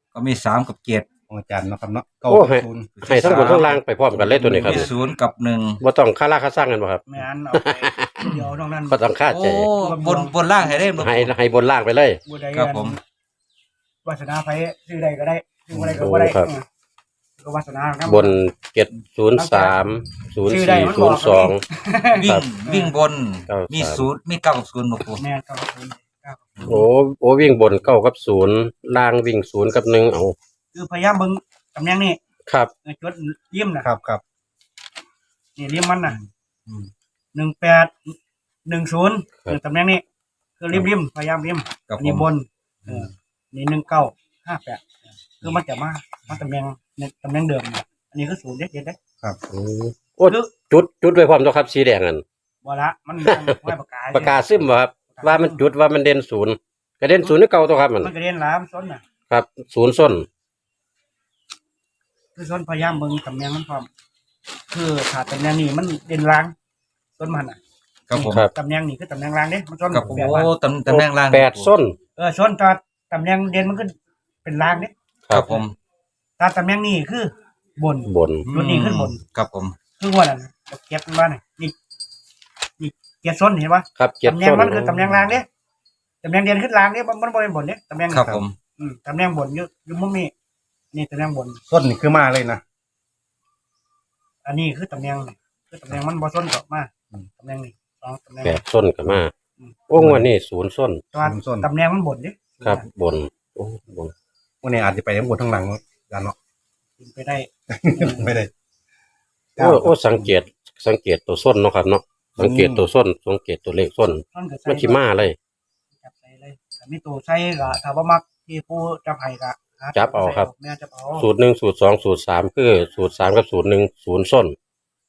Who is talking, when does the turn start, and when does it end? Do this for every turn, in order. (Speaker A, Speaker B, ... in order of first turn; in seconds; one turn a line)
Speaker A: 0.1-1.1
Speaker B: 1.3-3.6
Speaker C: 2.3-4.9
Speaker A: 3.0-3.8
Speaker B: 4.2-4.6
Speaker A: 4.6-5.8
Speaker D: 4.6-4.9
Speaker C: 5.8-8.4
Speaker D: 7.1-9.0
Speaker C: 8.9-9.7
Speaker A: 9.3-11.3
Speaker D: 9.8-10.8
Speaker C: 10.9-12.2
Speaker D: 12.2-13.0
Speaker A: 12.5-13.0
Speaker D: 14.0-16.6
Speaker C: 15.8-16.5
Speaker D: 17.4-18.4
Speaker C: 18.1-21.6
Speaker D: 19.4-19.8
Speaker D: 20.5-22.9
Speaker A: 22.1-25.2
Speaker C: 23.5-24.1
Speaker D: 25.2-26.7
Speaker C: 26.6-30.4
Speaker D: 30.7-32.2
Speaker D: 32.8-33.9
Speaker B: 33.8-34.2
Speaker D: 35.6-36.2
Speaker B: 36.1-36.9
Speaker D: 37.3-40.0
Speaker D: 40.6-49.0
Speaker A: 41.9-42.3
Speaker B: 42.9-43.1
Speaker C: 49.5-52.2
Speaker D: 52.6-54.4
Speaker C: 53.2-58.1
Speaker D: 55.1-55.7
Speaker D: 58.0-59.0
Speaker C: 59.3-60.3
Speaker D: 62.4-63.9
Speaker D: 64.7-66.5
Speaker D: 67.2-67.6
Speaker A: 68.1-68.4
Speaker D: 68.1-70.5
Speaker A: 69.9-71.7
Speaker C: 70.9-72.0
Speaker D: 72.2-73.9
Speaker D: 74.4-74.9
Speaker A: 75.3-75.8
Speaker D: 76.4-79.2
Speaker C: 78.1-78.5
Speaker A: 78.5-79.8
Speaker D: 80.0-81.8
Speaker D: 82.8-85.5
Speaker C: 84.0-85.1
Speaker B: 85.1-85.3
Speaker D: 86.2-90.3
Speaker A: 88.1-88.6
Speaker D: 90.9-91.6
Speaker B: 91.7-92.6
Speaker D: 94.4-98.6
Speaker C: 98.4-99.3
Speaker C: 99.9-101.0
Speaker B: 100.0-100.3
Speaker D: 101.1-102.8
Speaker B: 101.2-101.7
Speaker C: 102.6-104.1
Speaker B: 104.6-106.4
Speaker D: 107.0-108.4
Speaker B: 107.7-108.5
Speaker B: 109.6-110.3
Speaker C: 109.6-115.4
Speaker B: 112.4-112.9
Speaker D: 114.3-115.3
Speaker D: 116.0-121.3
Speaker C: 120.0-120.5
Speaker C: 121.2-124.5